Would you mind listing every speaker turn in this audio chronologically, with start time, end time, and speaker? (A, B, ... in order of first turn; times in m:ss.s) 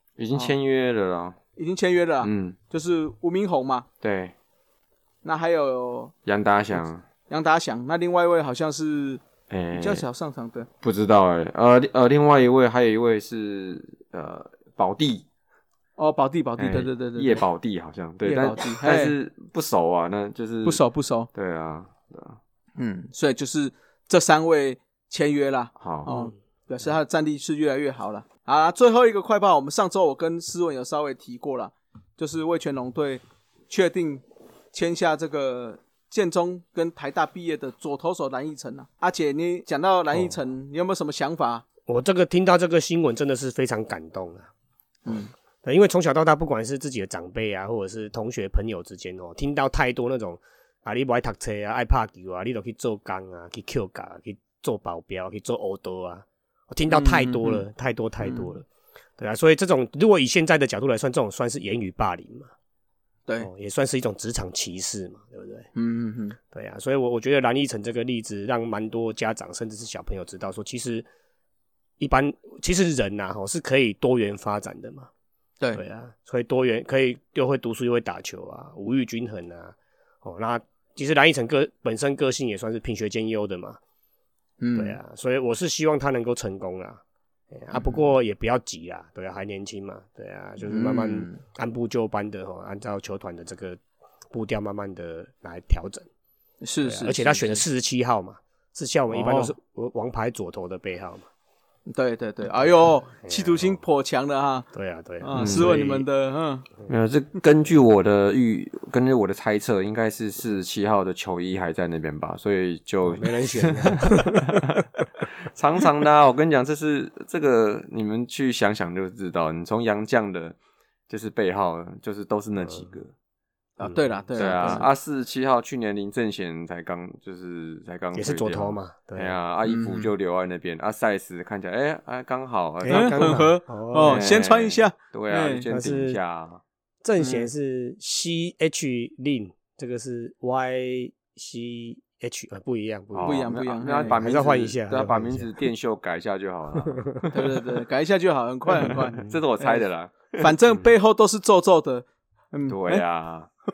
0:00.2-0:01.4 A
0:01.6-0:03.8 B
0:02.2-0:02.6 A
0:04.0-0:04.3 A
0:05.2-0:06.1 B
0:06.2-0:07.0 A
0:07.3-0:09.2 B
0:09.5-0:10.0 A
0:09.7-0:10.7 B
0:10.8-0:15.2 A
0:16.0-0:17.4 B
0:16.6-0:20.8 A
0:18.2-0:19.1 B
0:20.6-0:21.3 B
0:21.3-0:22.4 A
0:22.8-0:41.6 B
0:25.8-0:26.2 A
0:41.8-0:44.5 C
0:45.0-0:45.3 B
0:45.1-0:58.6 C
0:56.9-0:57.6 B
0:58.2-0:58.5 B
0:59.2-1:02.5 C
1:03.4-1:05.7 C
1:05.7-1:06.4 B
1:06.5-1:11.1 C
1:12.0-1:15.1 C
1:15.7-1:23.8 C
1:24.6-1:25.0 B
1:24.7-1:33.8 C
1:27.7-1:28.0 B
1:30.7-1:31.4 B
1:34.3-1:36.1 C
1:36.6-1:37.6 B
1:36.8-1:41.3 C
1:39.1-1:39.5 B
1:41.9-1:44.7 B
1:43.2-1:43.8 C
1:44.7-1:46.0 C
1:45.2-1:46.6 B
1:45.4-1:45.7 A
1:46.9-1:54.8 A
1:53.1-1:54.4 C
1:55.5-2:00.6 A
2:01.1-2:03.1 A
2:02.6-2:02.9 C
2:03.8-2:04.9 B
2:03.8-2:04.8 C
2:04.4-2:13.4 A
2:08.1-2:09.3 C
2:09.6-2:10.1 B
2:12.8-2:14.3 C
2:12.9-2:15.7 B
2:14.0-2:16.6 A
2:15.7-2:16.2 C
2:17.0-2:23.5 C
2:17.2-2:17.5 B
2:23.1-2:27.4 A
2:23.2-2:24.2 B
2:24.0-2:25.5 C
2:26.8-2:27.3 C
2:27.3-2:29.8 B
2:28.9-2:30.5 A
2:30.4-2:33.0 B
2:32.7-2:33.5 A